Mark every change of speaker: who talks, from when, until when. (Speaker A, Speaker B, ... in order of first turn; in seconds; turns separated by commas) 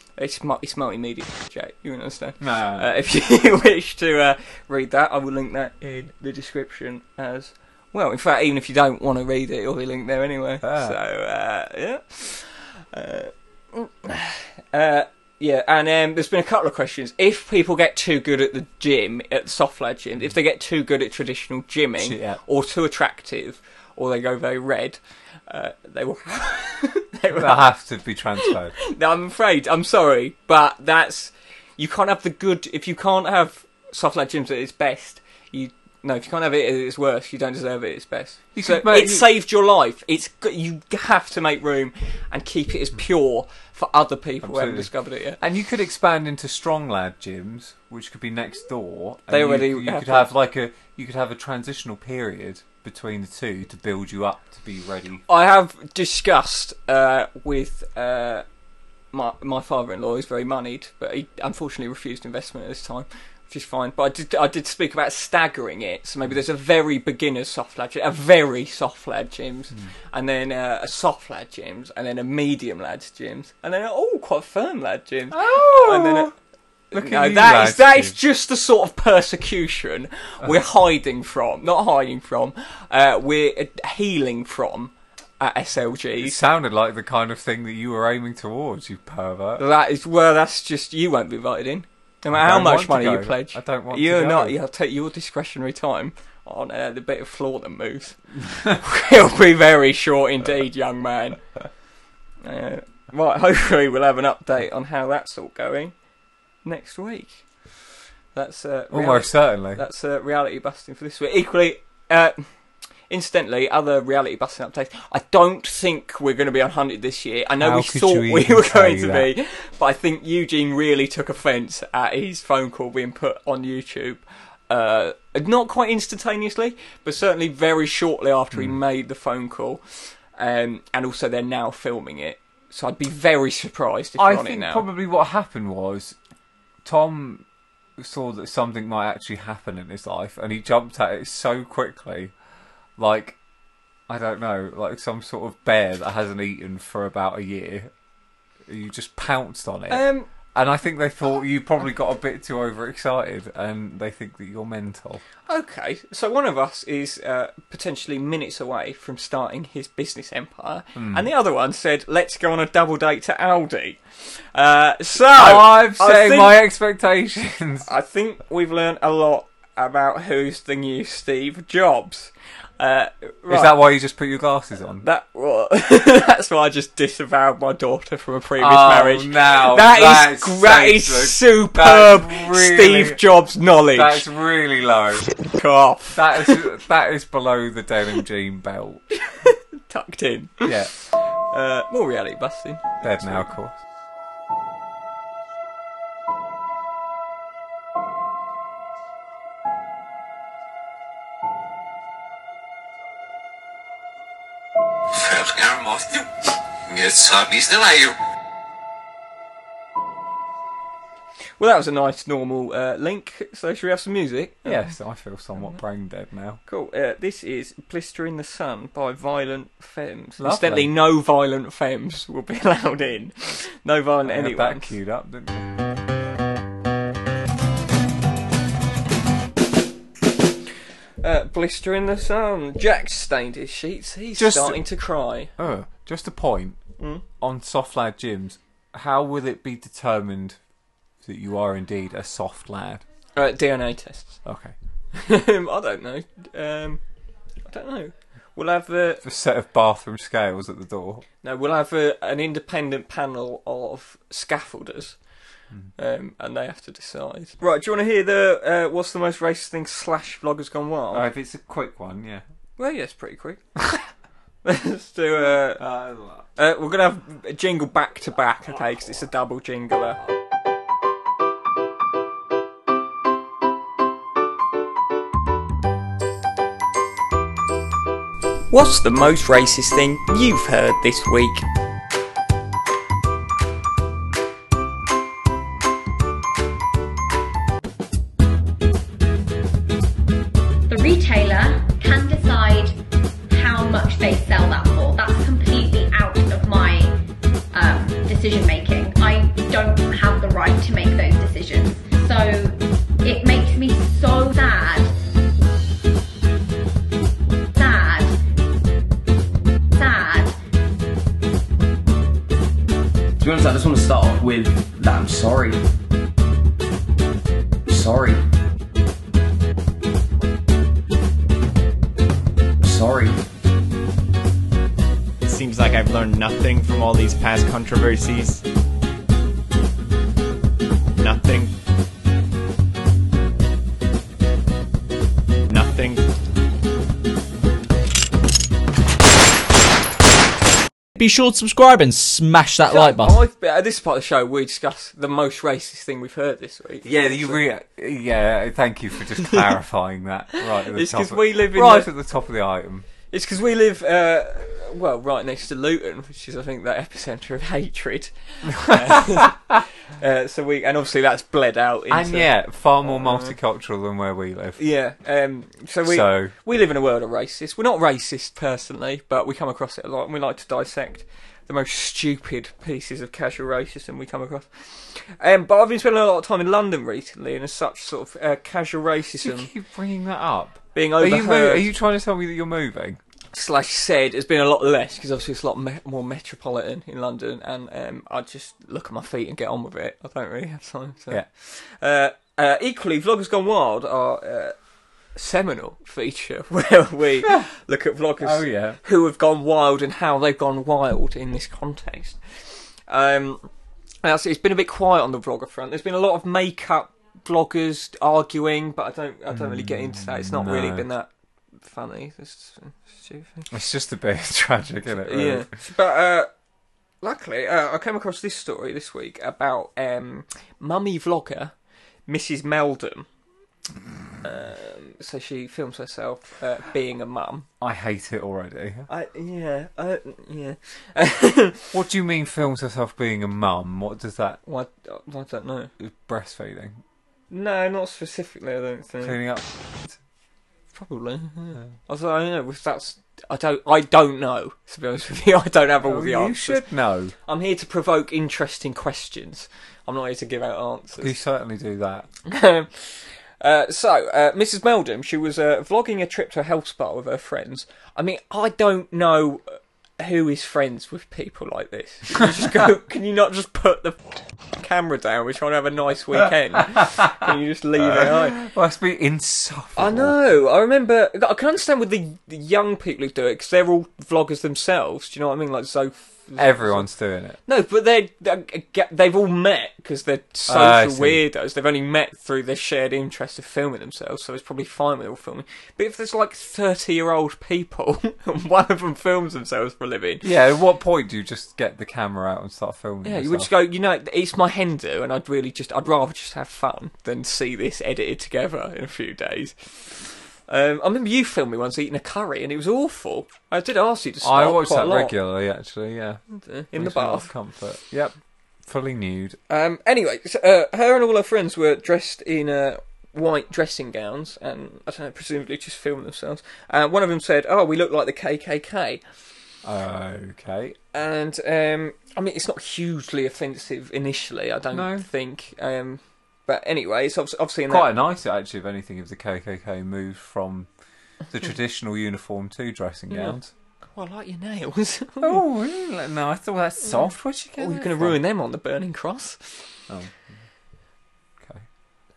Speaker A: 0.2-27.7, Speaker B: 2.4-2.9, Speaker B: 10.6-11.0, Speaker B: 22.0-22.4, Speaker B: 27.3-28.8, Speaker A: 28.4-45.4, Speaker B: 38.5-39.3, Speaker B: 44.4-55.2, Speaker A: 49.3-50.3, Speaker A: 55.3-58.4, Speaker A: 59.1-76.3, Speaker B: 75.3-76.3, Speaker A: 76.9-86.4, Speaker B: 76.9-78.2, Speaker B: 86.2-89.6, Speaker A: 89.6-101.4, Speaker B: 92.3-94.6, Speaker A: 102.4-105.9, Speaker A: 106.6-107.4, Speaker A: 108.3-112.5, Speaker B: 108.9-109.8, Speaker A: 113.1-134.9, Speaker B: 117.6-119.3, Speaker B: 128.5-128.8, Speaker B: 134.2-136.2, Speaker B: 136.8-137.4, Speaker B: 138.0-142.3, Speaker B: 143.0-143.4, Speaker B: 144.1-147.9, Speaker B: 148.7-155.2, Speaker A: 149.9-150.3, Speaker A: 155.5-166.6, Speaker B: 161.0-161.3, Speaker B: 165.3-167.9, Speaker A: 167.8-173.8, Speaker B: 173.5-175.1, Speaker A: 175.0-184.3, Speaker B: 178.6-183.2, Speaker B: 183.8-185.3, Speaker A: 185.4-186.7, Speaker B: 186.1-189.0, Speaker A: 189.3-193.5, Speaker B: 190.6-190.9, Speaker B: 193.0-193.8, Speaker C: 205.1-208.2, Speaker A: 211.6-214.9, Speaker B: 214.7-216.6, Speaker A: 216.7-225.0, Speaker B: 220.4-220.9, Speaker B: 224.2-225.7, Speaker A: 231.2-235.5, Speaker B: 234.4-234.9, Speaker B: 235.6-240.6, Speaker A: 237.0-237.2, Speaker B: 241.2-243.0, Speaker A: 243.3-244.4, Speaker B: 244.4-244.8, Speaker A: 245.1-247.0, Speaker A: 247.7-249.2, Speaker B: 249.2-251.2, Speaker A: 251.4-255.2, Speaker A: 256.0-261.3, Speaker B: 261.1-262.4, Speaker A: 262.8-263.6, Speaker A: 264.6-265.8, Speaker B: 265.7-266.4, Speaker A: 266.6-270.2, Speaker A: 278.7-281.6, Speaker D: 290.9-293.0, Speaker D: 293.5-297.2, Speaker D: 297.7-305.1, Speaker D: 307.8-308.4, Speaker D: 309.9-310.6, Speaker E: 313.4-315.9, Speaker E: 317.9-318.4, Speaker E: 322.8-323.4, Speaker F: 325.4-328.6, Speaker F: 331.2-331.7, Speaker F: 335.7-336.3, Speaker G: 341.2-343.4, Speaker A: 342.9-347.6, Speaker B: 347.0-353.1, Speaker A: 350.8-352.1, Speaker A: 353.3-363.5, Speaker B: 358.7-359.6, Speaker B: 362.1-364.8, Speaker A: 364.8-379.7, Speaker B: 366.1-366.5, Speaker B: 379.4-383.2, Speaker A: 380.9-381.9, Speaker A: 383.5-394.8, Speaker A: 395.4-402.4, Speaker B: 398.4-399.0, Speaker A: 403.1-403.7, Speaker A: 404.2-411.3, Speaker B: 409.5-411.1, Speaker A: 411.8-413.7, Speaker B: 413.7-415.7, Speaker A: 415.2-416.5, Speaker A: 417.2-421.7, Speaker A: 422.3-423.3, Speaker A: 424.4-427.7, Speaker B: 427.8-429.1, Speaker A: 429.1-431.9, Speaker B: 431.9-434.6, Speaker A: 434.7-435.9, Speaker B: 436.0-437.0, Speaker A: 437.5-439.4, Speaker B: 439.2-440.2, Speaker A: 440.9-446.8, Speaker B: 446.0-447.4, Speaker A: 447.4-451.4, Speaker B: 451.2-452.3, Speaker A: 452.5-468.6, Speaker B: 466.9-470.4, Speaker A: 470.0-477.1, Speaker B: 476.6-477.6, Speaker A: 477.7-490.5, Speaker B: 480.7-481.4, Speaker B: 490.4-493.7, Speaker A: 493.2-505.4, Speaker B: 504.4-506.4, Speaker A: 506.5-507.5, Speaker B: 506.9-509.6, Speaker A: 509.7-519.2, Speaker B: 519.8-521.0, Speaker A: 521.1-528.1, Speaker B: 524.9-525.3, Speaker B: 527.9-530.9, Speaker B: 531.5-533.7, Speaker A: 533.3-533.6, Speaker A: 534.1-535.6, Speaker B: 535.4-538.4, Speaker A: 537.1-539.8, Speaker B: 540.1-540.5